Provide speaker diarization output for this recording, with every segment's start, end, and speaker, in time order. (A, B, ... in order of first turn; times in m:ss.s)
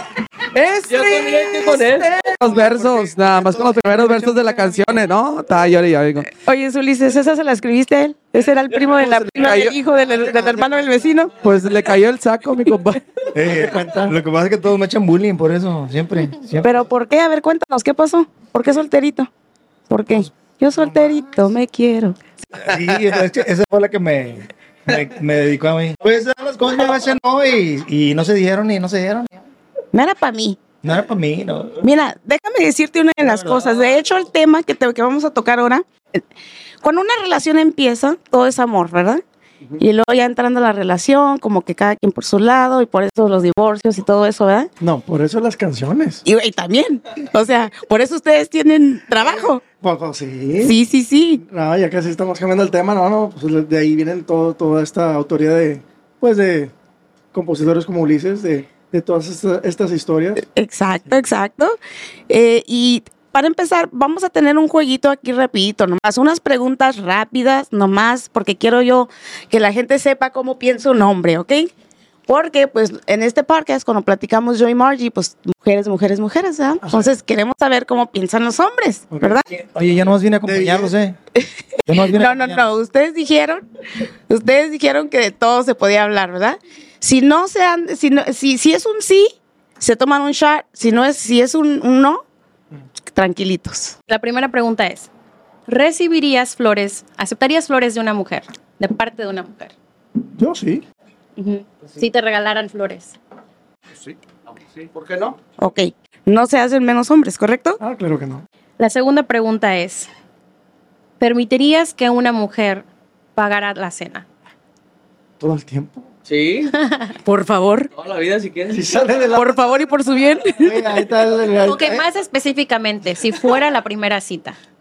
0:00.5-0:06.3 A
0:00.9-0:02.2 B
0:02.2-0:03.1 C
0:03.4-0:04.9 D
0:06.3-0:11.3 E
0:09.0-0:09.8 A
0:10.3-0:10.7 C
0:11.4-0:13.3 A
0:13.3-0:16.7 D
0:13.4-0:14.1 C
0:16.6-0:19.3 E
0:19.9-0:22.2 E
0:22.6-0:29.4 D
0:29.9-0:30.6 E
0:30.8-0:31.9 D
0:31.8-0:36.2 E
0:33.2-0:33.6 D
0:36.8-0:39.2 E
0:39.8-0:44.7 E
0:44.8-0:46.2 C
0:46.2-0:49.6 E
0:49.2-0:50.8 C
0:50.6-0:51.4 E
0:51.4-0:56.7 C
0:57.3-1:00.4 C
1:00.4-1:01.8 E
1:02.3-1:11.7 E
1:12.3-1:19.4 E
1:16.8-1:17.1 C
1:19.1-1:19.4 C
1:19.5-1:21.2 D
1:20.4-1:20.9 C
1:21.4-1:23.6 E
1:21.8-1:22.7 D
1:24.3-1:32.2 E
1:33.1-1:34.0 E
1:34.1-1:35.1 F
1:35.7-1:39.7 F
1:40.4-1:40.8 C
1:41.4-1:43.2 F
1:43.9-1:44.2 A
1:44.9-1:45.4 A
1:45.6-1:47.8 E
1:47.8-1:48.4 C
1:48.8-1:50.1 F
1:51.2-1:52.8 F
1:53.4-1:54.2 F
1:55.4-1:56.1 C
1:56.2-1:56.7 B
1:56.8-1:57.2 F
1:57.2-1:57.9 E
1:57.9-1:59.0 B
1:58.7-1:59.6 C
1:59.3-2:00.9 E
2:00.5-2:02.0 C
2:01.6-2:04.6 F